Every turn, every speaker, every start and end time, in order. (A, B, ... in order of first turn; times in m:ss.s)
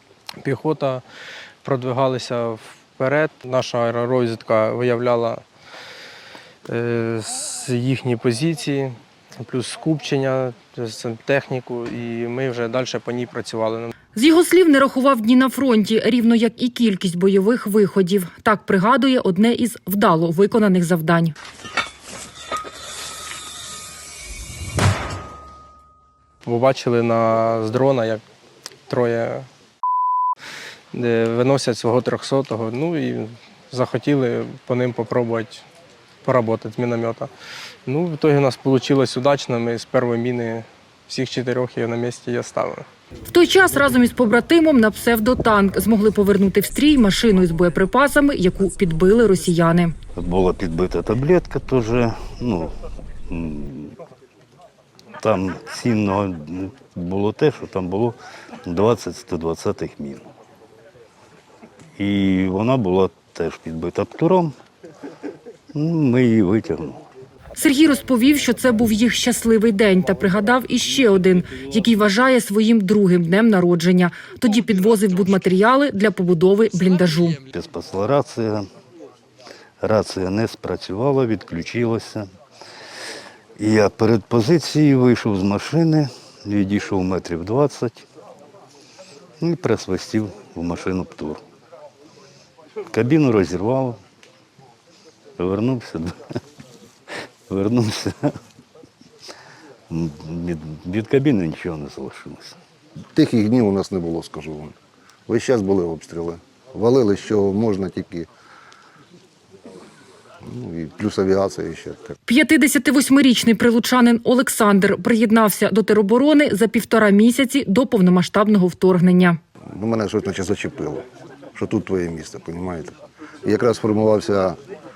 0:00.4-0:01.0 A
0:01.6-0:05.4 A
0:06.7-0:13.9 A
0:14.1-0:21.3 B
0:26.4-0:28.2 A
0:28.9-0:29.5 A
0:30.9-0:35.6 A
0:36.2-0:37.3 A
0:37.9-0:42.8 A
0:43.3-0:49.9 B
0:50.2-0:52.7 C
0:53.3-0:54.0 C
0:55.2-1:00.3 C
1:02.0-1:04.5 C
1:05.7-1:07.0 C
1:07.6-1:17.4 B
1:17.5-1:18.7 C
1:19.8-1:22.3 C
1:23.6-1:28.0 C
1:29.4-1:31.4 C
1:32.9-1:34.0 C
1:35.4-1:36.1 C
1:37.5-1:38.3 C
1:39.9-1:42.6 C
1:43.1-1:44.7 D
1:45.3-1:48.3 D
1:50.4-1:52.1 D
1:52.3-1:59.4 B
1:59.7-2:01.0 D
2:01.6-2:04.6 D